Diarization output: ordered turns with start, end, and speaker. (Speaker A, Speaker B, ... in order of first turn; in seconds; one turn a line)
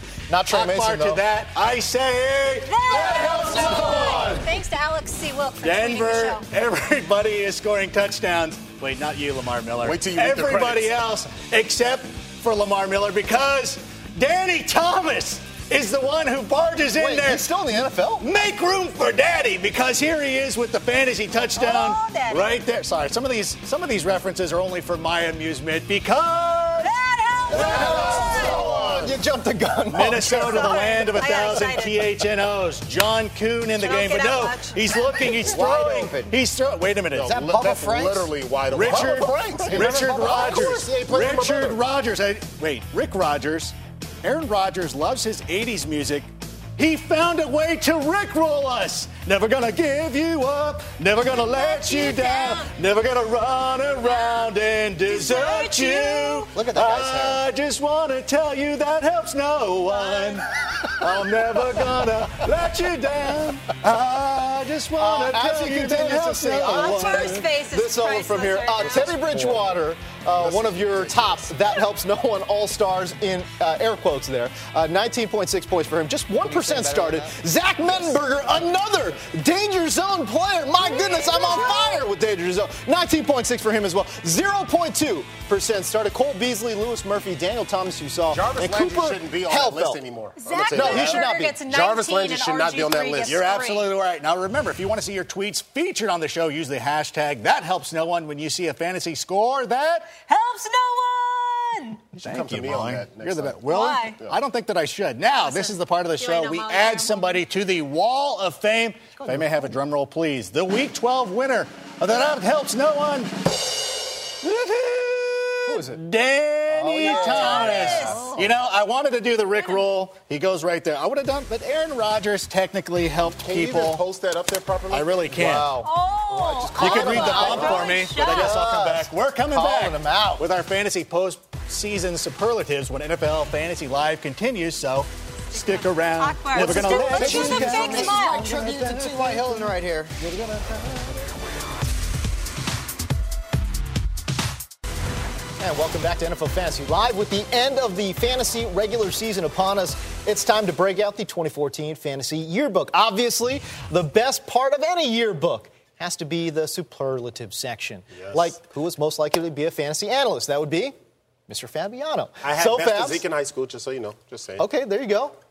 Speaker A: 0.3-1.2
Speaker B: 0.5-4.5
Speaker C: 2.6-6.5
Speaker B: 5.6-17.5
Speaker D: 9.8-10.9
Speaker A: 16.9-18.3
Speaker B: 18.2-26.9
Speaker C: 21.5-22.5
Speaker C: 26.8-28.6
Speaker A: 27.5-30.8
Speaker B: 27.5-28.2
Speaker D: 27.6-29.1
Speaker B: 29.9-37.4
Speaker C: 30.2-32.1
Speaker C: 33.7-35.5
Speaker E: 35.5-36.4
Speaker D: 37.1-41.8
Speaker E: 37.3-38.3
Speaker B: 38.7-67.5
Speaker A: 38.9-40.0
Speaker E: 38.9-40.8
Speaker C: 51.2-52.7
Speaker C: 54.0-54.5
Speaker C: 55.0-56.5
Speaker E: 56.5-57.4
Speaker C: 59.9-60.4
Speaker A: 65.0-90.0
Speaker C: 66.6-69.2
Speaker E: 76.4-77.3
Speaker E: 77.8-78.5
Speaker C: 80.8-82.1
Speaker D: 88.3-93.4
Speaker C: 90.4-93.9
Speaker A: 90.7-91.6
Speaker B: 93.2-100.1
Speaker C: 100.2-102.1
Speaker B: 102.2-113.3
Speaker D: 102.2-103.6
Speaker C: 103.7-104.2
Speaker C: 105.4-107.4
Speaker A: 109.2-109.5
Speaker B: 114.4-124.0
Speaker A: 115.6-116.0
Speaker A: 116.7-118.5
Speaker C: 117.1-118.3
Speaker C: 119.5-119.9
Speaker D: 123.4-125.7
Speaker B: 124.9-125.7
Speaker A: 125.3-125.9
Speaker C: 125.8-128.5
Speaker A: 126.7-130.5
Speaker B: 126.7-139.4
Speaker D: 126.8-127.9
Speaker C: 135.5-138.4
Speaker A: 136.5-139.7
Speaker E: 136.6-140.2
Speaker B: 140.2-141.2
Speaker A: 145.6-160.9
Speaker D: 158.2-158.5
Speaker A: 161.5-163.2
Speaker D: 162.4-164.6
Speaker A: 164.6-165.3